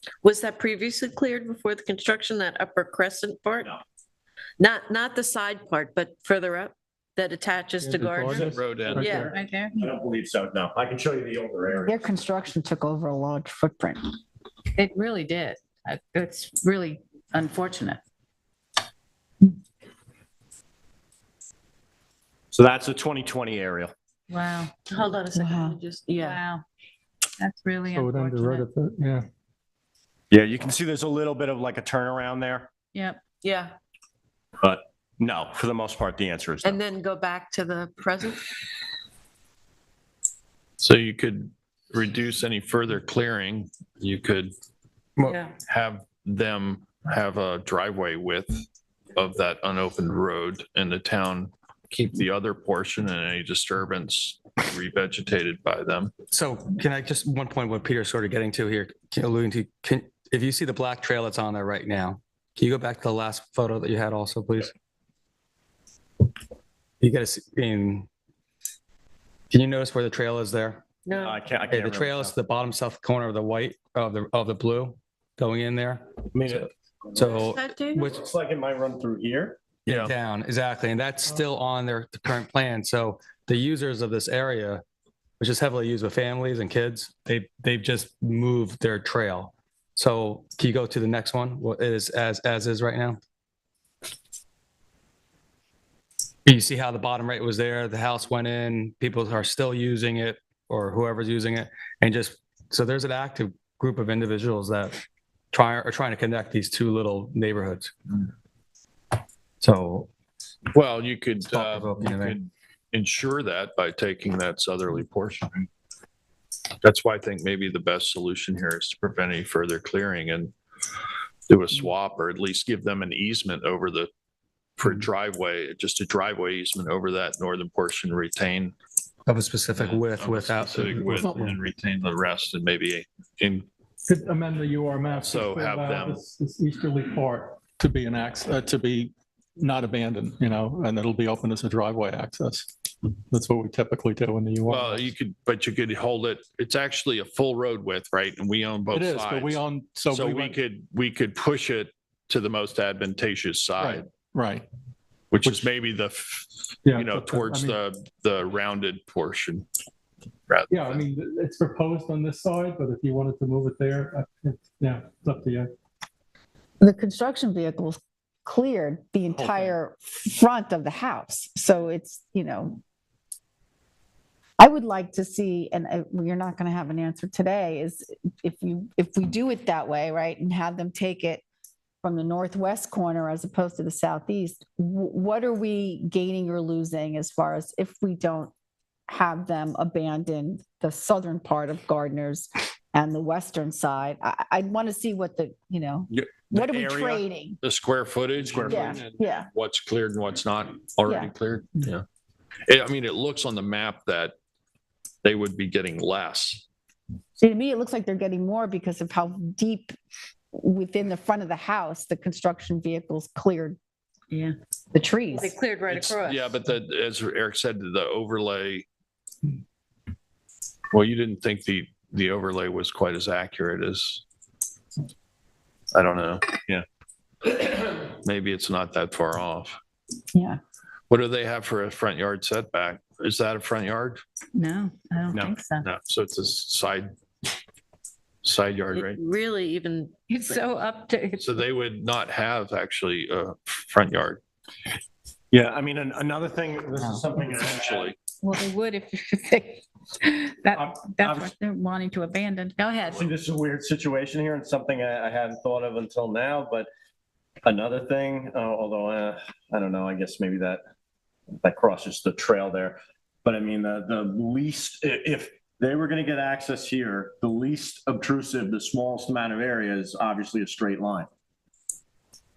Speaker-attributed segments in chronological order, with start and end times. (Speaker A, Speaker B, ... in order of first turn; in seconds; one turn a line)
Speaker A: 0.2-3.7
Speaker A: 4.6-9.3
Speaker B: 7.8-9.1
Speaker C: 8.2-12.1
Speaker D: 8.4-9.1
Speaker E: 9.2-9.7
Speaker F: 11.8-14.1
Speaker E: 14.7-18.0
Speaker C: 22.5-23.9
Speaker E: 24.3-24.8
Speaker A: 24.9-26.4
Speaker F: 25.4-25.8
Speaker E: 26.2-26.6
Speaker E: 27.4-28.7
Speaker B: 27.9-29.3
Speaker C: 30.3-32.7
Speaker E: 32.9-33.2
Speaker A: 33.4-33.7
Speaker C: 34.6-36.8
Speaker A: 36.6-38.5
Speaker D: 40.8-44.5
Speaker A: 45.2-45.5
Speaker D: 45.7-56.1
Speaker G: 56.3-64.7
Speaker G: 67.0-68.1
Speaker G: 69.5-70.8
Speaker A: 71.0-71.4
Speaker C: 71.1-72.3
Speaker G: 71.7-76.1
Speaker C: 76.3-77.2
Speaker G: 77.1-78.2
Speaker A: 77.2-78.1
Speaker C: 78.1-80.0
Speaker G: 79.9-84.8
Speaker G: 85.4-93.2
Speaker G: 96.4-105.0
Speaker G: 105.5-108.3
Speaker G: 109.6-110.1
Speaker D: 110.7-115.7
Speaker G: 111.5-112.4
Speaker D: 116.8-120.5
Speaker D: 121.5-124.1
Speaker D: 124.8-128.7
Speaker G: 129.2-131.5
Speaker D: 129.7-133.7
Speaker B: 131.0-131.4
Speaker B: 134.1-142.7
Speaker D: 135.1-136.2
Speaker B: 143.3-145.1
Speaker D: 144.7-154.1
Speaker B: 148.9-150.6
Speaker B: 153.8-154.7
Speaker D: 155.3-159.7
Speaker B: 155.4-155.7
Speaker B: 156.8-157.8
Speaker D: 160.5-161.0
Speaker B: 160.7-165.7
Speaker F: 166.8-172.8
Speaker F: 174.6-181.4
Speaker F: 182.0-188.5
Speaker F: 189.1-197.6
Speaker B: 196.1-196.4
Speaker C: 196.5-197.2
Speaker D: 197.6-202.0
Speaker B: 198.4-199.0
Speaker C: 198.5-198.9
Speaker F: 198.7-199.5
Speaker F: 201.1-201.3
Speaker D: 202.7-204.3
Speaker D: 205.2-206.6
Speaker F: 207.4-209.9
Speaker F: 210.5-213.8
Speaker F: 214.9-215.5
Speaker A: 215.3-216.6
Speaker D: 215.9-218.8
Speaker D: 220.9-224.2
Speaker D: 225.9-226.7
Speaker D: 227.4-229.8
Speaker F: 230.3-230.6
Speaker D: 231.1-234.2
Speaker E: 234.5-235.8
Speaker D: 235.8-237.1
Speaker D: 238.4-239.2
Speaker A: 238.9-240.6
Speaker E: 240.3-241.5
Speaker D: 241.4-244.4
Speaker C: 245.5-248.1
Speaker D: 247.6-248.2
Speaker E: 248.4-253.2
Speaker C: 250.7-251.5
Speaker C: 253.0-256.9
Speaker C: 257.6-260.8
Speaker C: 261.6-271.3